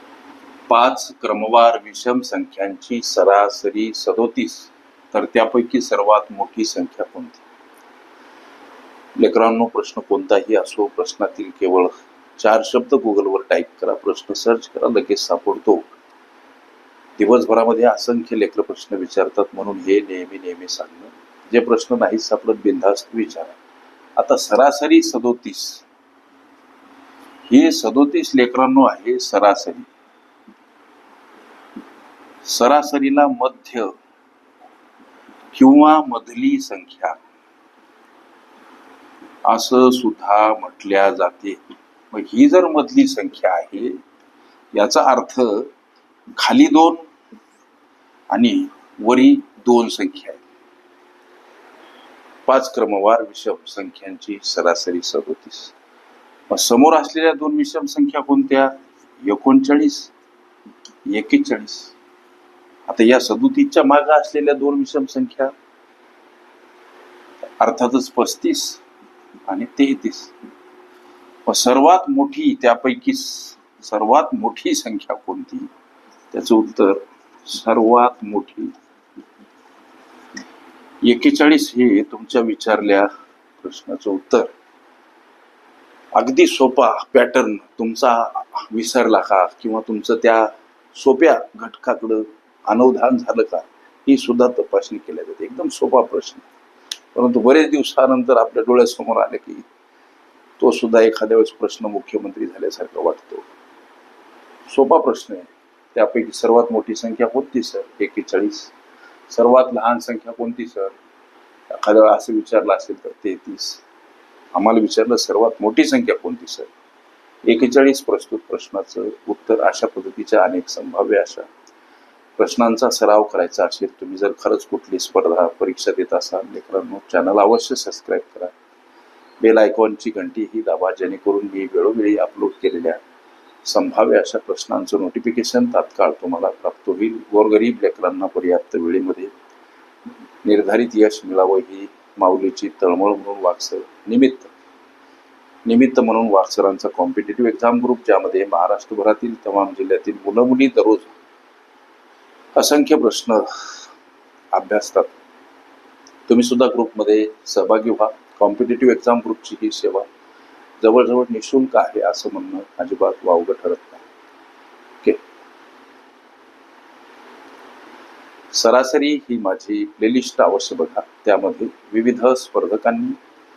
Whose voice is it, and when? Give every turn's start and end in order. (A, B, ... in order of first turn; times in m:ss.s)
0:00.7-0:07.4 A
0:09.2-0:15.9 A
0:17.2-0:23.6 A
0:24.2-0:25.8 A
0:27.5-0:29.9 A
0:32.4-0:33.9 A
0:35.5-0:37.2 A
0:39.4-0:41.6 A
0:42.1-0:44.0 A
0:44.7-0:45.7 A
0:46.3-0:47.0 A
0:48.3-0:50.4 A
0:52.4-0:55.7 A
0:56.5-1:00.1 A
1:01.0-1:01.9 A
1:02.9-1:05.5 A
1:07.6-1:08.8 A
1:09.5-1:10.3 A
1:11.4-1:15.7 A
1:16.3-1:18.7 A
1:21.0-1:24.5 A
1:26.1-1:36.4 A
1:37.1-1:39.6 A
1:40.6-1:43.4 A
1:44.7-1:48.7 A
1:49.3-1:50.9 A
1:51.7-1:53.8 A
1:54.5-1:56.7 A
1:57.4-2:01.5 A
2:02.4-2:08.5 A
2:09.4-2:13.0 A
2:13.6-2:19.3 A
2:20.4-2:24.5 A
2:25.6-2:31.1 A
2:32.5-2:33.9 A
2:34.5-2:35.1 A
2:36.3-2:40.1 A
2:40.8-2:44.0 A
2:48.5-2:53.2 A